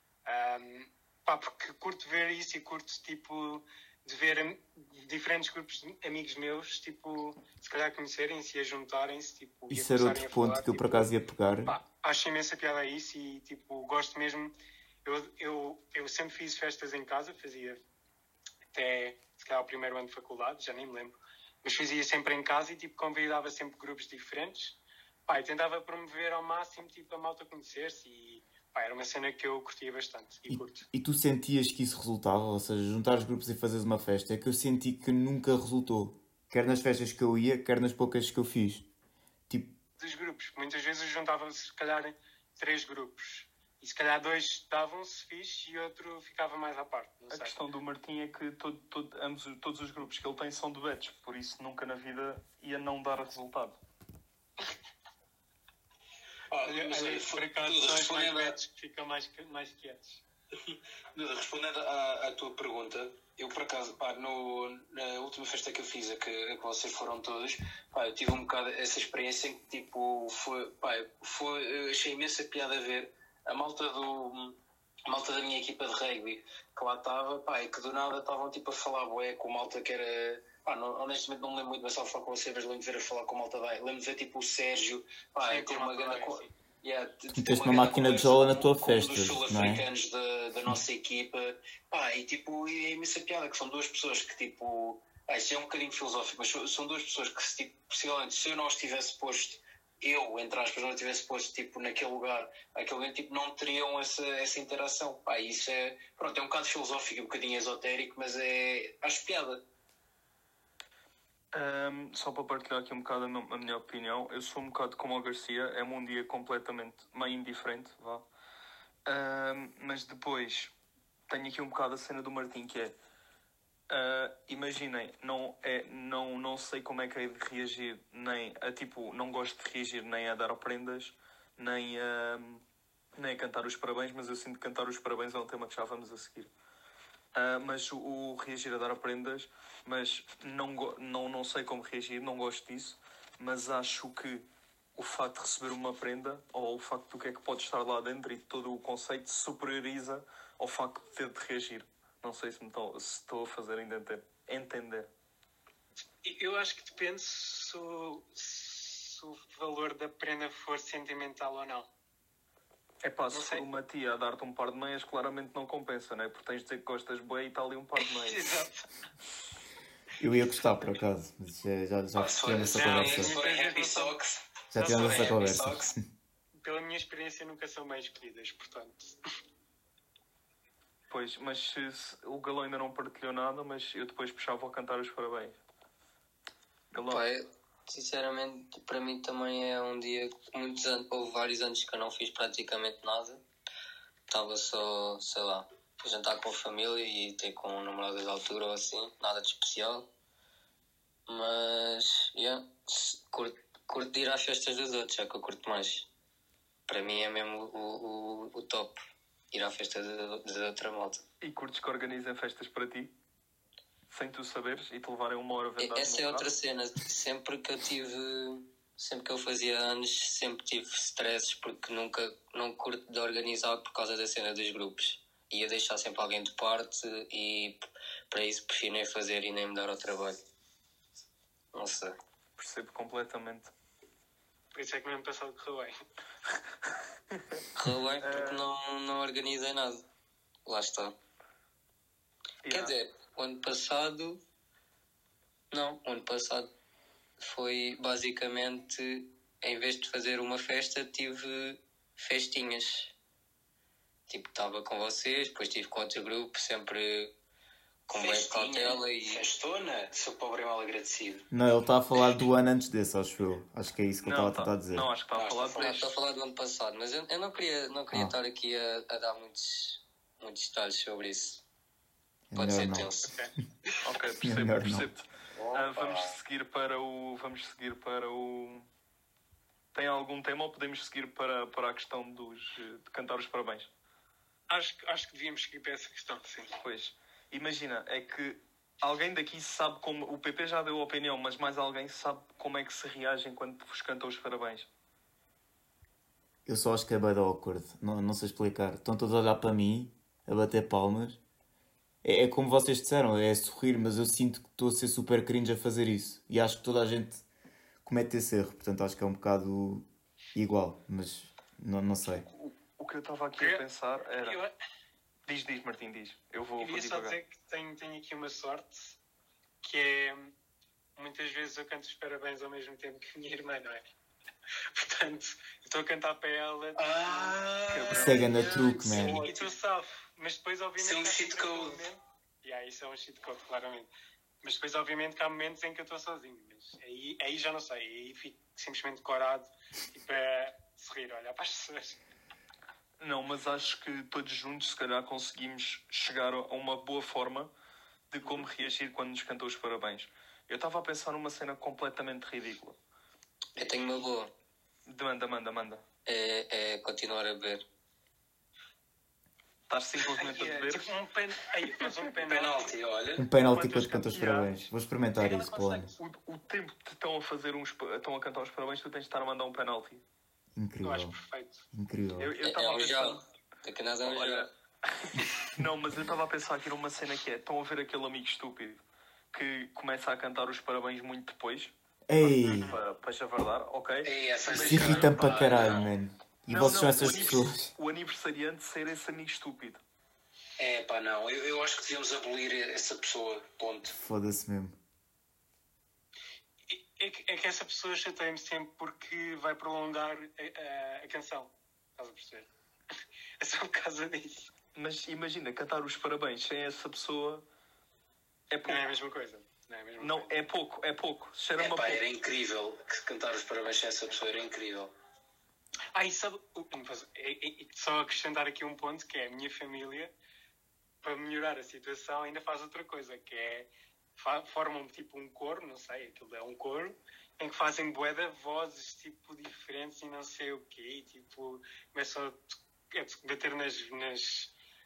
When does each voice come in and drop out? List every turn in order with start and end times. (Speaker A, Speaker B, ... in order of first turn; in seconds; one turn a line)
Speaker A: 0.2-11.1
Speaker B: 9.7-11.8
Speaker A: 11.7-14.5
Speaker A: 15.1-17.8
Speaker A: 18.7-30.9
Speaker B: 30.5-38.9
Speaker B: 39.5-39.8
Speaker A: 40.0-47.6
Speaker C: 47.3-53.8
Speaker D: 56.5-58.6
Speaker A: 56.6-60.2
Speaker D: 60.6-109.6
Speaker A: 85.5-86.5
Speaker B: 87.3-89.9
Speaker C: 111.5-118.2
Speaker C: 119.1-120.7
Speaker C: 121.3-122.9
Speaker C: 123.9-132.6
Speaker C: 133.2-136.5
Speaker C: 137.3-155.1
Speaker A: 156.2-161.9
Speaker C: 163.0-168.6
Speaker A: 163.3-163.7
Speaker A: 168.0-168.8
Speaker B: 170.2-173.3
Speaker D: 172.1-175.9
Speaker A: 172.7-174.2
Speaker B: 174.7-176.0
Speaker A: 174.8-175.4
Speaker A: 176.6-179.2
Speaker C: 181.1-185.6
Speaker C: 186.9-187.2
Speaker E: 187.1-193.4
Speaker E: 194.3-200.1
Speaker E: 201.3-206.1
Speaker E: 206.9-209.0
Speaker E: 209.5-211.2
Speaker C: 211.4-213.1
Speaker C: 214.1-216.5
Speaker E: 215.8-230.4
Speaker E: 231.7-232.2
Speaker C: 232.6-233.7
Speaker A: 234.7-235.9
Speaker C: 237.3-237.6
Speaker E: 237.8-240.0
Speaker C: 238.2-238.7
Speaker E: 240.7-241.2
Speaker C: 242.6-242.9
Speaker E: 242.7-244.4
Speaker E: 245.7-246.7
Speaker E: 247.4-253.1
Speaker E: 254.3-257.3
Speaker E: 258.1-259.4
Speaker D: 258.1-261.5
Speaker B: 261.5-265.1
Speaker C: 264.2-266.1
Speaker D: 265.3-266.1
Speaker E: 265.8-271.6
Speaker B: 272.5-273.1
Speaker E: 272.5-273.3
Speaker A: 273.2-273.5
Speaker C: 274.0-278.9
Speaker B: 274.4-275.1
Speaker D: 275.6-276.3
Speaker C: 279.9-283.9
Speaker A: 284.7-286.7
Speaker C: 286.8-294.9
Speaker B: 296.7-301.4
Speaker B: 302.2-307.4
Speaker B: 308.1-312.5
Speaker C: 312.4-314.6
Speaker A: 313.6-313.8
Speaker A: 314.4-314.7
Speaker C: 315.4-317.4
Speaker A: 316.8-319.2
Speaker A: 319.8-320.5
Speaker A: 321.2-324.0
Speaker A: 324.9-327.6
Speaker D: 326.9-329.7
Speaker C: 327.9-328.5
Speaker B: 328.2-329.4
Speaker A: 329.1-334.1
Speaker D: 331.0-332.1
Speaker A: 334.6-342.2
Speaker C: 343.2-347.7
Speaker C: 348.3-353.0
Speaker A: 348.4-348.7
Speaker E: 353.8-354.5
Speaker C: 355.1-356.0
Speaker E: 356.3-357.8
Speaker C: 359.9-361.1
Speaker A: 360.4-362.9
Speaker D: 362.4-363.4
Speaker B: 363.4-366.1
Speaker A: 363.7-364.6
Speaker C: 364.3-364.8
Speaker A: 365.4-366.0
Speaker C: 365.5-370.2
Speaker B: 370.7-371.4
Speaker A: 371.0-371.8
Speaker B: 371.9-372.5
Speaker C: 372.4-373.4
Speaker E: 372.6-374.7
Speaker C: 374.2-379.0
Speaker C: 379.5-381.9
Speaker B: 382.3-382.9
Speaker C: 382.4-385.7
Speaker D: 384.2-386.1
Speaker B: 384.7-387.9
Speaker C: 386.7-390.0
Speaker D: 390.8-394.2
Speaker B: 394.1-395.0
Speaker A: 396.9-402.7
Speaker A: 403.6-404.7
Speaker C: 404.9-407.6
Speaker C: 408.7-409.1
Speaker A: 408.8-410.6
Speaker C: 410.2-412.2
Speaker D: 411.8-415.1
Speaker A: 416.1-420.3
Speaker A: 421.2-434.7